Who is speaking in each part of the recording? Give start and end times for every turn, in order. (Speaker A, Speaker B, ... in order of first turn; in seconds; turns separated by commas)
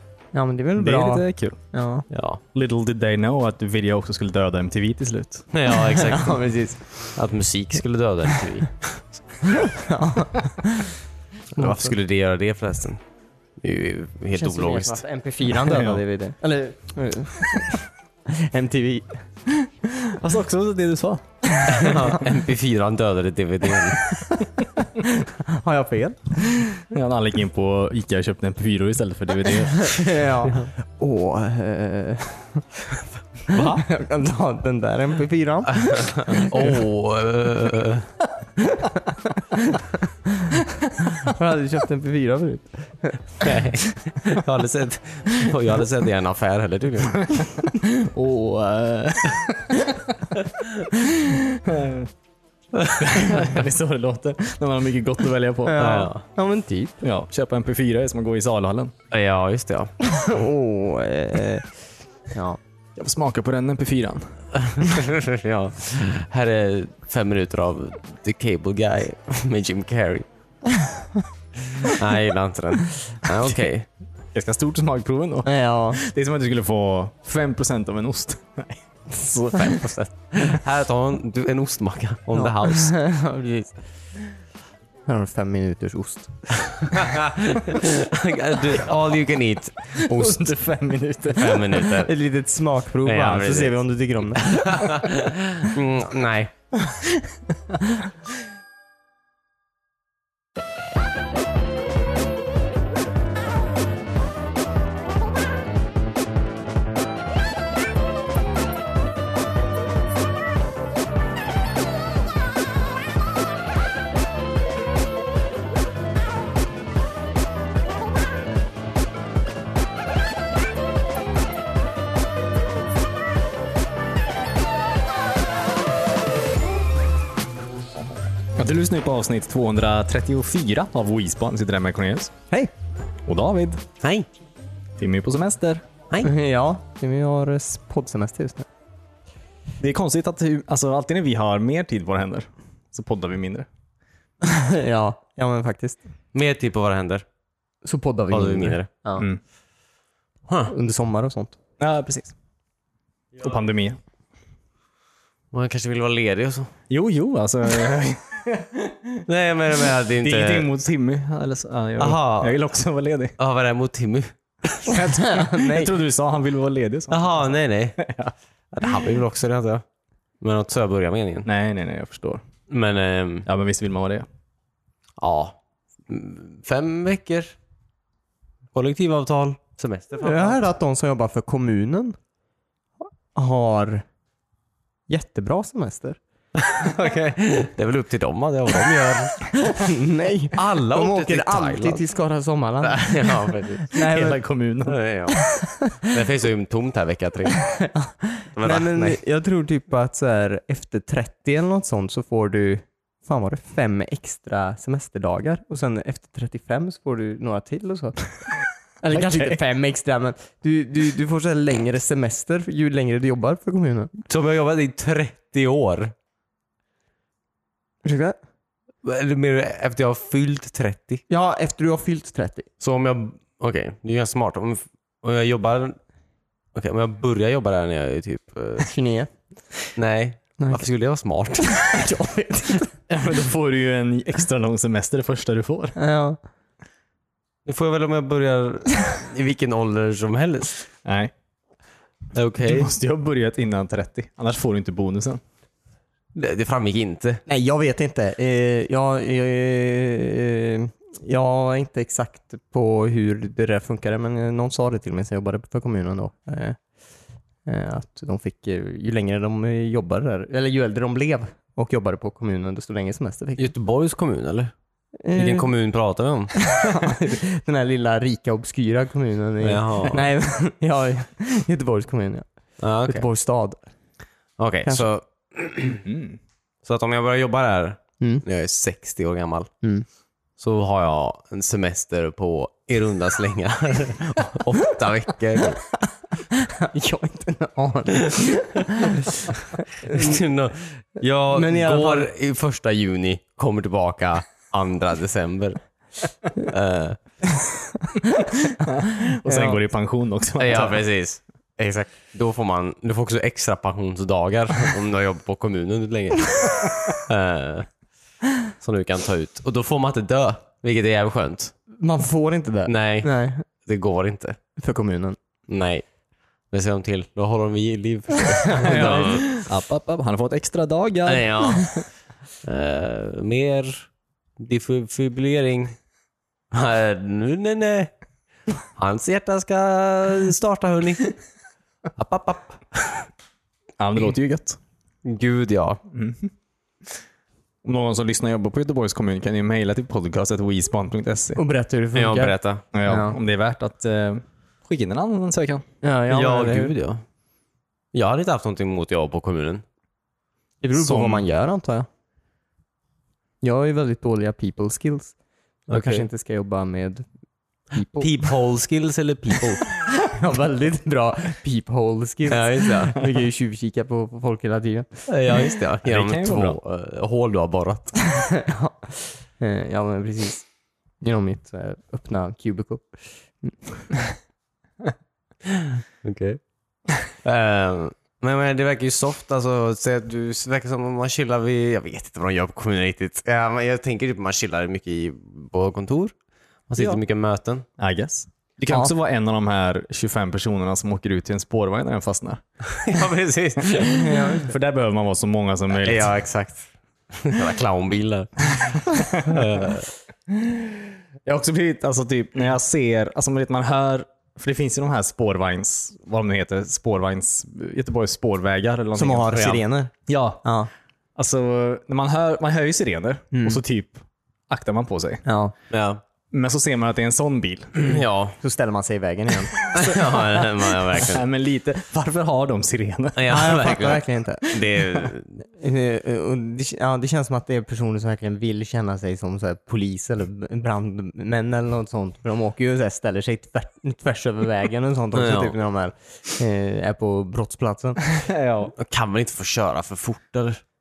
Speaker A: 0.3-2.1, Speaker B: 0.8-1.6, Speaker C: 2.1-2.4, Speaker B: 2.5-5.5, Speaker C: 5.5-9.1, Speaker A: 5.8-6.7, Speaker A: 9.5-10.9, Speaker C: 11.5-13.0, Speaker A: 11.6-11.9, Speaker C: 13.6-15.0, Speaker A: 14.3-19.2, Speaker B: 15.6-16.0, Speaker B: 20.1-21.2, Speaker A: 21.6-22.2, Speaker C: 21.7-24.2, Speaker B: 24.1-24.6, Speaker A: 25.0-26.7, Speaker B: 26.8-30.1, Speaker A: 29.7-32.6, Speaker A: 33.5-36.8, Speaker C: 33.5-33.8, Speaker C: 35.7-38.1, Speaker A: 38.6-43.4, Speaker C: 43.4-47.3, Speaker B: 47.4-50.3, Speaker C: 50.4-50.8, Speaker B: 51.1-52.1, Speaker C: 52.7-53.2, Speaker B: 53.0-55.8, Speaker A: 55.6-57.0, Speaker C: 55.8-56.2, Speaker B: 57.0-58.9, Speaker C: 59.1-59.9, Speaker A: 60.0-61.8, Speaker A: 62.3-62.6, Speaker B: 63.0-64.5, Speaker C: 64.5-70.2, Speaker C: 71.8-73.9, Speaker B: 74.3-79.9, Speaker A: 75.4-76.0, Speaker C: 79.5-83.0, Speaker A: 82.3-83.7, Speaker A: 85.0-87.0, Speaker C: 86.9-90.5, Speaker B: 90.0-91.8, Speaker C: 91.3-92.1, Speaker A: 91.8-95.0, Speaker C: 93.0-93.7, Speaker C: 94.4-96.5, Speaker B: 128.6-132.3, Speaker B: 133.2-133.8, Speaker C: 134.0-134.2, Speaker B: 135.0-135.8, Speaker A: 136.2-138.7, Speaker B: 139.8-143.7, Speaker A: 144.4-146.0, Speaker C: 146.3-147.2, Speaker A: 147.8-149.2, Speaker C: 148.3-149.2, Speaker C: 150.5-150.7, Speaker A: 150.7-151.6, Speaker B: 151.8-152.3, Speaker B: 153.4-154.0, Speaker C: 155.5-156.7, Speaker B: 156.9-159.2, Speaker C: 159.3-160.7, Speaker B: 160.2-163.3, Speaker C: 162.0-162.6, Speaker C: 163.4-164.3, Speaker B: 164.8-168.3, Speaker A: 164.8-165.9, Speaker C: 167.1-168.0, Speaker C: 168.7-169.8, Speaker C: 170.4-171.5, Speaker B: 171.4-172.4, Speaker C: 172.7-173.5, Speaker B: 173.4-174.2, Speaker C: 175.2-177.6, Speaker C: 178.7-180.6, Speaker A: 180.2-182.2, Speaker A: 183.3-184.0, Speaker A: 185.1-186.2, Speaker C: 186.6-189.4, Speaker A: 189.4-194.4, Speaker C: 190.5-192.0, Speaker C: 192.8-194.1, Speaker B: 194.0-195.0, Speaker C: 194.8-195.4, Speaker A: 195.4-196.0, Speaker C: 195.9-197.7, Speaker A: 197.6-214.1, Speaker C: 198.5-199.2, Speaker B: 209.1-209.6, Speaker C: 214.3-216.1, Speaker A: 218.0-218.4, Speaker C: 219.0-221.2, Speaker A: 221.3-222.7, Speaker C: 222.8-226.0, Speaker C: 226.7-228.9, Speaker A: 228.8-229.3, Speaker C: 229.9-231.7, Speaker A: 230.6-230.8, Speaker A: 231.7-232.9, Speaker B: 233.1-235.9, Speaker A: 235.9-236.4, Speaker C: 237.7-240.7, Speaker B: 241.0-241.3, Speaker C: 242.3-242.9, Speaker B: 242.6-245.4, Speaker C: 246.3-247.4, Speaker A: 247.5-256.8, Speaker A: 257.6-263.7, Speaker C: 263.6-264.7, Speaker A: 265.2-265.7, Speaker C: 265.3-266.5, Speaker A: 266.5-272.4, Speaker C: 269.6-270.3, Speaker C: 272.8-273.2, Speaker A: 273.0-273.8, Speaker C: 274.6-276.0, Speaker B: 275.9-276.4, Speaker C: 276.8-279.7, Speaker A: 278.2-278.4, Speaker C: 280.6-285.8, Speaker A: 286.5-290.4, Speaker C: 288.2-288.5, Speaker C: 290.0-296.0, Speaker A: 291.5-292.3, Speaker C: 296.6-297.2, Speaker B: 298.9-301.0, Speaker A: 299.4-299.8, Speaker C: 300.6-307.9, Speaker C: 308.8-311.7, Speaker A: 312.0-313.6, Speaker C: 312.8-314.6, Speaker A: 314.8-315.4, Speaker C: 315.7-316.1, Speaker C: 316.7-319.6, Speaker A: 318.8-319.4, Speaker B: 318.8-322.0, Speaker C: 321.3-322.0, Speaker C: 322.6-326.0, Speaker C: 326.7-328.1, Speaker C: 328.9-331.3, Speaker C: 332.2-333.3, Speaker B: 334.0-334.8, Speaker C: 335.2-336.0, Speaker B: 336.1-336.5, Speaker B: 337.8-341.6, Speaker A: 341.6-343.4, Speaker C: 342.1-342.8, Speaker B: 342.9-345.8, Speaker A: 346.0-346.9, Speaker C: 346.3-347.2, Speaker C: 348.1-349.8, Speaker A: 350.8-352.1, Speaker B: 351.0-351.4, Speaker A: 353.6-355.3, Speaker C: 355.9-356.2, Speaker A: 355.9-357.2, Speaker A: 357.9-358.5, Speaker C: 358.2-359.8, Speaker A: 359.8-365.7, Speaker C: 362.5-363.2, Speaker C: 365.3-368.2, Speaker B: 366.0-366.8, Speaker A: 368.3-370.6, Speaker A: 371.2-374.1, Speaker C: 375.7-376.6, Speaker C: 377.3-386.4, Speaker C: 386.9-387.9, Speaker B: 388.0-392.6, Speaker C: 392.9-394.2, Speaker A: 394.1-394.7, Speaker B: 394.4-396.3, Speaker C: 396.0-400.1, Speaker B: 400.5-410.7, Speaker A: 409.1-410.1, Speaker A: 410.6-410.9, Speaker B: 411.4-415.4, Speaker A: 413.5-413.8, Speaker A: 415.4-415.7, Speaker C: 415.9-416.2, Speaker B: 416.5-418.2, Speaker C: 418.0-418.6, Speaker A: 418.6-419.9, Speaker B: 419.8-420.6, Speaker C: 419.9-421.4, Speaker B: 421.2-423.8, Speaker C: 423.4-425.6, Speaker A: 423.5-424.8, Speaker A: 425.7-438.4, Speaker C: 435.3-435.8, Speaker B: 438.3-438.9, Speaker C: 438.9-440.8